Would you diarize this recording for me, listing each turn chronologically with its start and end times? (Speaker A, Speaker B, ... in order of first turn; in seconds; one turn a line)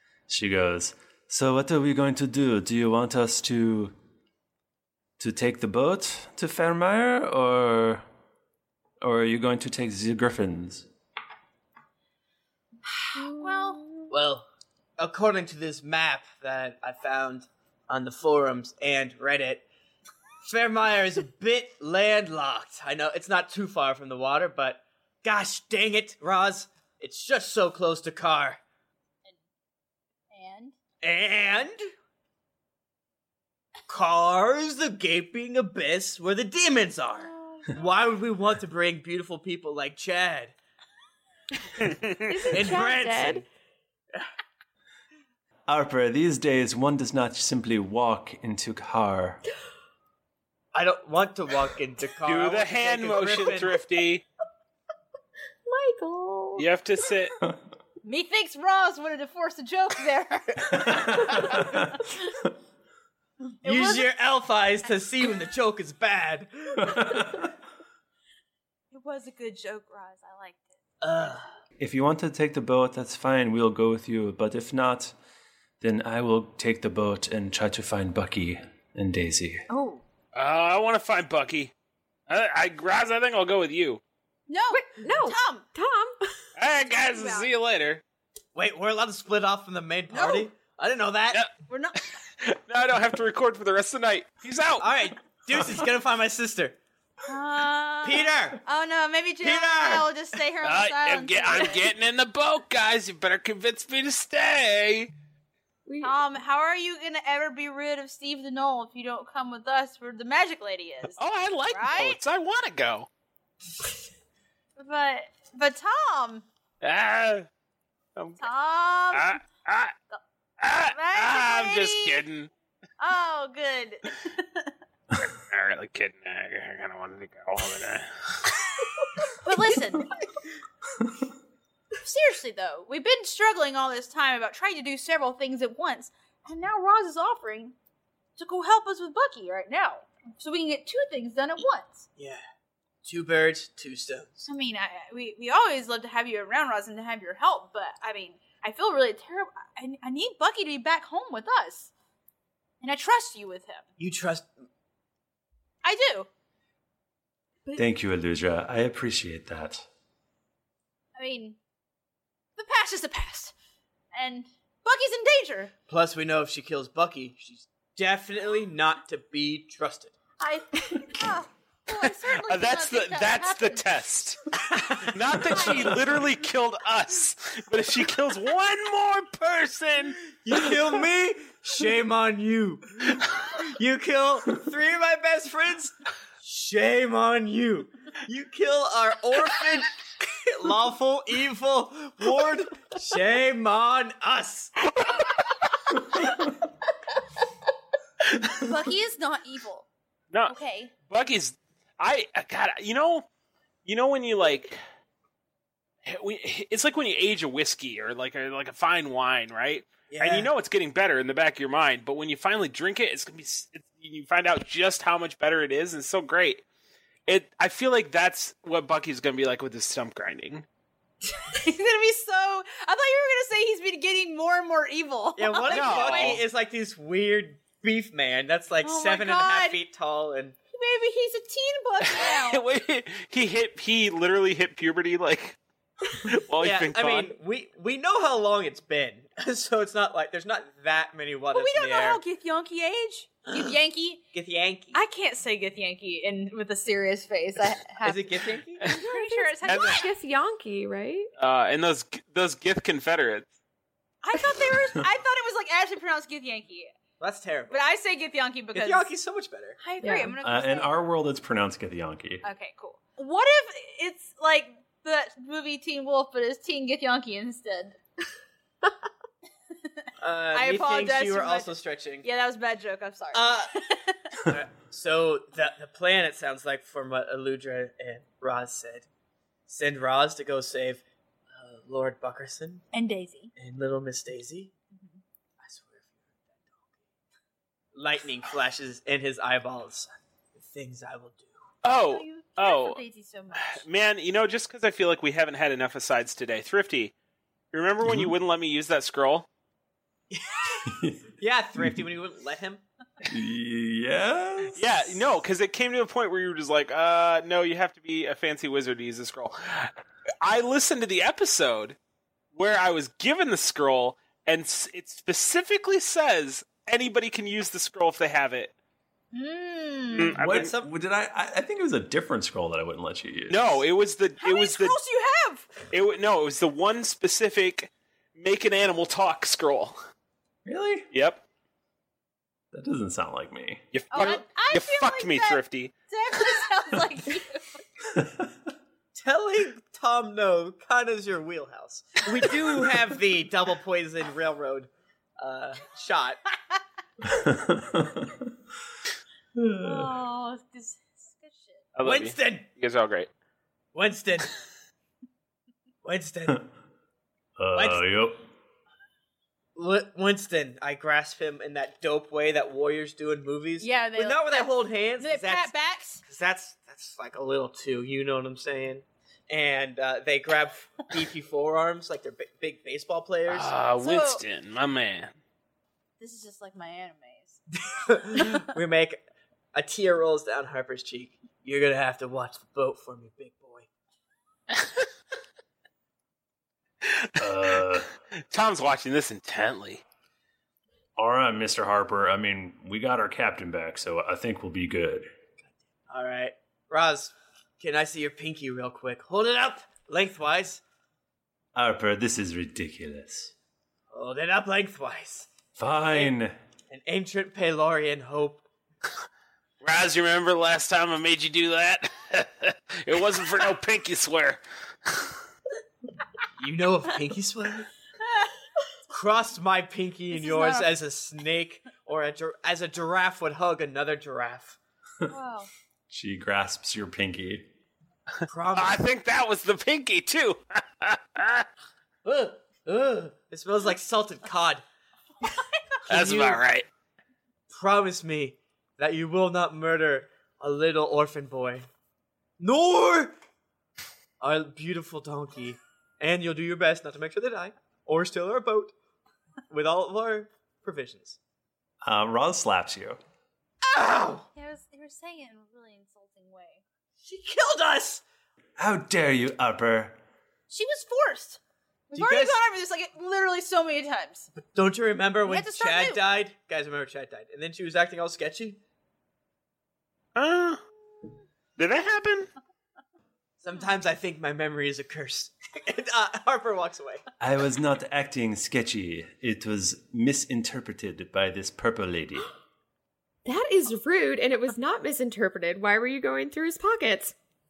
Speaker A: 0.3-3.9
Speaker A: 5.2-8.0
Speaker A: 9.0-10.9
Speaker B: 13.1-13.8
Speaker C: 13.2-14.1
Speaker D: 14.1-14.4
Speaker D: 15.0-19.6
Speaker D: 20.4-28.6
Speaker B: 30.3-30.8
Speaker D: 31.0-31.8
Speaker D: 33.9-40.5
Speaker C: 42.3-43.4
Speaker D: 42.5-43.4
Speaker A: 45.7-49.4
Speaker D: 50.7-53.8
Speaker E: 52.2-54.2
Speaker C: 55.6-56.7
Speaker E: 56.5-57.3
Speaker B: 58.0-62.1
Speaker A: 60.8-62.0
Speaker B: 63.6-64.1
Speaker D: 63.6-67.3
Speaker A: 66.9-67.3
Speaker B: 68.9-70.8
Speaker D: 71.0-71.4
Speaker A: 71.8-75.1
Speaker A: 75.8-79.6
Speaker B: 79.7-80.0
Speaker E: 80.3-81.7
Speaker E: 82.3-84.0
Speaker B: 84.5-85.7
Speaker C: 84.7-86.3
Speaker E: 86.6-88.0
Speaker B: 86.9-87.5
Speaker D: 88.5-91.4
Speaker B: 90.1-90.5
Speaker B: 91.7-92.2
Speaker E: 92.4-95.0
Speaker D: 94.8-96.8
Speaker B: 97.2-101.9
Speaker D: 98.0-98.6
Speaker D: 99.4-100.1
Speaker E: 100.6-105.1
Speaker C: 105.8-106.2
Speaker B: 106.0-112.2
Speaker E: 111.2-113.1
Speaker B: 114.8-116.5
Speaker E: 116.8-117.5
Speaker E: 118.2-118.4
Speaker B: 118.4-119.4
Speaker E: 119.1-119.9
Speaker E: 120.6-122.5
Speaker B: 120.8-122.2
Speaker B: 123.0-124.7
Speaker E: 125.3-128.5
Speaker B: 129.4-130.1
Speaker B: 132.0-137.7
Speaker B: 138.4-142.0
Speaker D: 142.2-142.4
Speaker D: 143.0-144.5
Speaker B: 144.5-151.9
Speaker B: 152.8-153.8
Speaker D: 154.0-154.5
Speaker B: 155.8-156.3
Speaker A: 157.8-159.8
Speaker B: 161.2-161.6
Speaker B: 162.6-163.5
Speaker B: 164.1-165.7
Speaker D: 165.9-170.2
Speaker B: 170.4-173.9
Speaker E: 172.0-180.2
Speaker B: 175.6-176.0
Speaker D: 180.4-194.8
Speaker B: 198.5-199.9
Speaker B: 200.5-200.9
Speaker E: 201.1-203.2
Speaker E: 203.8-204.8
Speaker E: 206.0-216.6
Speaker D: 210.1-210.5
Speaker E: 217.3-220.7
Speaker B: 221.4-226.4
Speaker D: 225.3-230.6
Speaker E: 225.7-226.4
Speaker B: 228.8-229.8
Speaker B: 230.7-232.6
Speaker E: 232.1-235.6
Speaker E: 236.1-237.3
Speaker D: 236.6-242.2
Speaker B: 241.5-244.2
Speaker D: 244.3-245.0
Speaker B: 244.9-250.1
Speaker D: 248.0-248.9
Speaker C: 248.9-251.3
Speaker E: 249.6-250.0
Speaker E: 251.4-253.5
Speaker B: 254.2-256.9
Speaker D: 257.2-257.8
Speaker B: 257.7-259.1
Speaker D: 258.7-259.8
Speaker B: 259.8-260.9
Speaker C: 260.0-260.4
Speaker A: 260.4-262.4
Speaker B: 262.4-267.9
Speaker D: 270.2-272.2
Speaker B: 270.5-274.2
Speaker D: 273.3-273.7
Speaker D: 274.4-279.1
Speaker D: 279.7-282.9
Speaker B: 282.9-283.5
Speaker D: 283.6-284.7
Speaker B: 284.9-285.2
Speaker D: 285.6-287.0
Speaker D: 287.9-291.5
Speaker E: 291.8-293.0
Speaker B: 291.9-293.8
Speaker E: 293.6-297.1
Speaker E: 297.7-299.5
Speaker A: 298.0-298.3
Speaker D: 300.3-300.9
Speaker A: 300.9-301.2
Speaker D: 301.4-302.8
Speaker A: 303.2-305.1
Speaker E: 304.8-311.9
Speaker E: 312.5-318.7
Speaker B: 319.3-320.4
Speaker E: 320.1-320.7
Speaker A: 320.4-323.8
Speaker D: 320.4-320.9
Speaker E: 323.5-325.0
Speaker B: 324.4-325.7
Speaker E: 325.9-329.9
Speaker A: 330.6-331.1
Speaker E: 331.1-331.4
Speaker A: 332.7-333.8
Speaker E: 333.9-335.9
Speaker B: 334.1-337.8
Speaker A: 338.1-338.5
Speaker D: 339.1-346.4
Speaker A: 347.3-348.3
Speaker A: 349.6-350.1
Speaker B: 349.8-351.8
Speaker E: 351.9-353.3
Speaker D: 352.0-352.6
Speaker D: 353.9-354.5
Speaker D: 356.0-356.6
Speaker A: 357.6-358.4
Speaker D: 357.7-358.0
Speaker D: 359.8-365.7
Speaker B: 363.8-366.2
Speaker D: 366.2-373.7
Speaker E: 373.5-375.4
Speaker B: 374.0-374.4
Speaker B: 376.2-377.6
Speaker D: 377.9-379.2
Speaker D: 379.7-383.9
Speaker E: 387.0-387.3
Speaker A: 387.4-388.1
Speaker E: 388.5-390.0
Speaker A: 391.2-395.3
Speaker D: 396.1-400.8
Speaker A: 401.7-403.5
Speaker D: 404.1-405.5
Speaker A: 405.8-406.5
Speaker D: 406.9-408.6
Speaker E: 409.8-415.3
Speaker D: 416.6-417.9
Speaker D: 419.1-424.8
Speaker B: 420.3-420.9
Speaker B: 425.3-425.7
Speaker A: 426.1-427.6
Speaker D: 428.5-429.0
Speaker E: 428.7-431.7
Speaker D: 432.2-434.8
Speaker B: 435.4-435.7
Speaker D: 436.1-436.6
Speaker E: 436.1-436.9
Speaker D: 437.7-441.9
Speaker D: 442.6-443.3
Speaker D: 444.4-448.9
Speaker D: 449.7-451.4
Speaker A: 452.0-453.2
Speaker D: 453.9-454.4
Speaker B: 454.5-456.8
Speaker D: 457.2-458.2
Speaker A: 458.8-460.2
Speaker B: 460.7-461.6
Speaker B: 462.1-464.5
Speaker D: 462.1-462.6
Speaker D: 464.6-468.8
Speaker B: 465.5-466.2
Speaker E: 470.4-470.8
Speaker E: 471.8-472.5
Speaker D: 473.6-477.2
Speaker A: 477.4-482.5
Speaker C: 483.4-487.3